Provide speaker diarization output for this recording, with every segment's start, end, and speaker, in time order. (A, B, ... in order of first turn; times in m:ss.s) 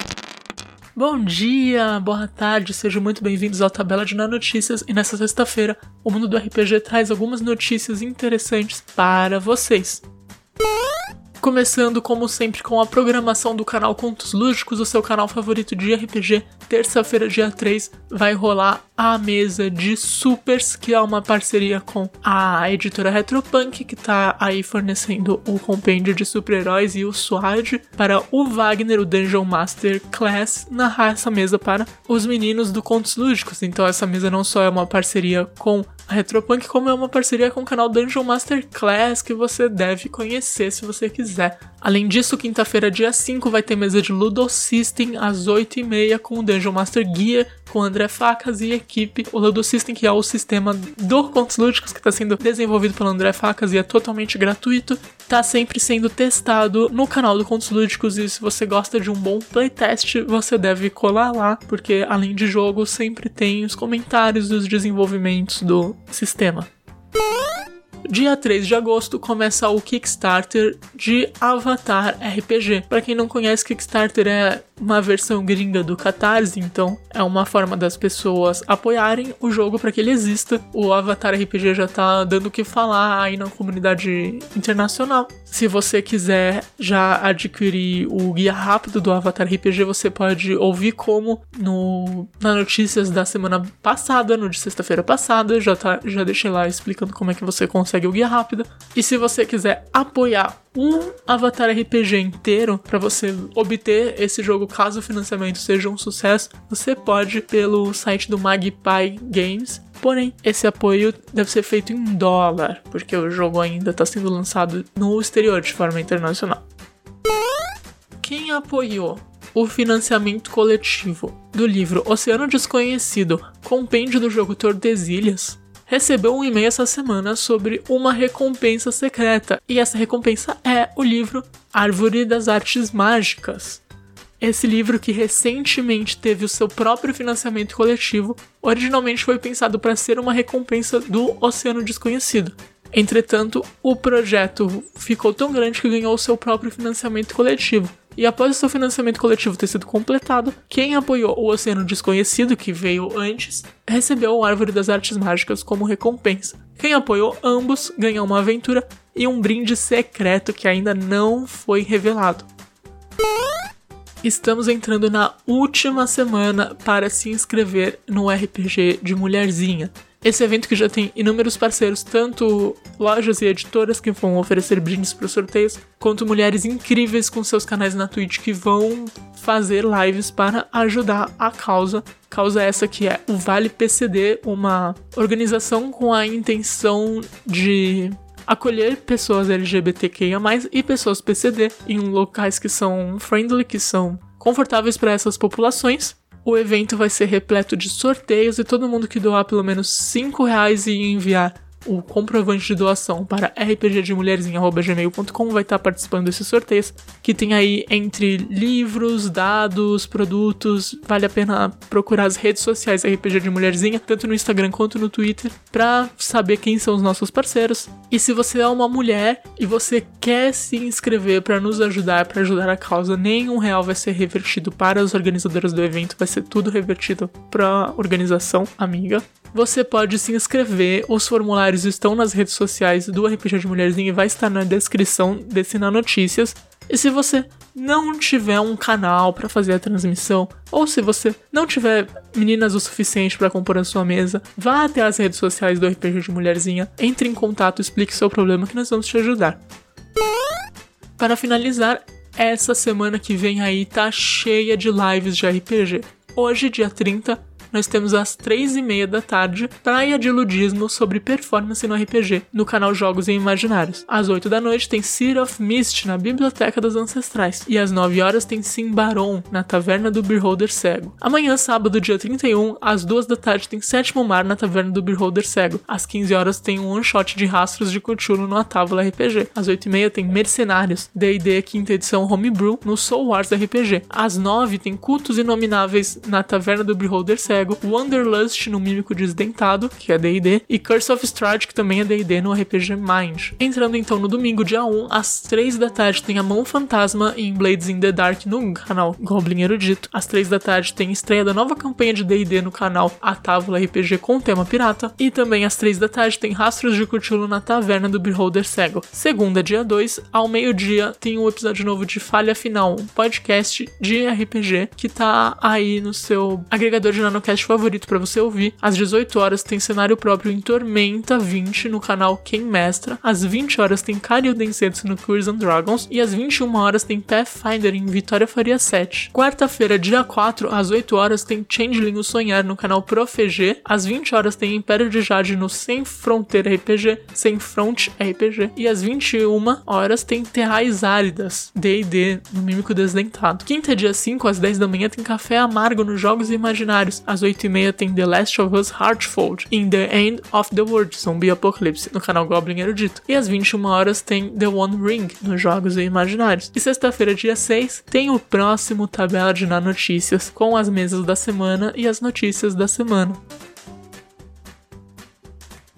0:01.0-0:10.0 A
0:11.4-1:06.7 A
1:08.1-1:56.6 A
1:58.2-2:13.8 A
2:14.4-2:42.5 A
2:44.2-4:09.6 A
4:11.2-6:03.4 A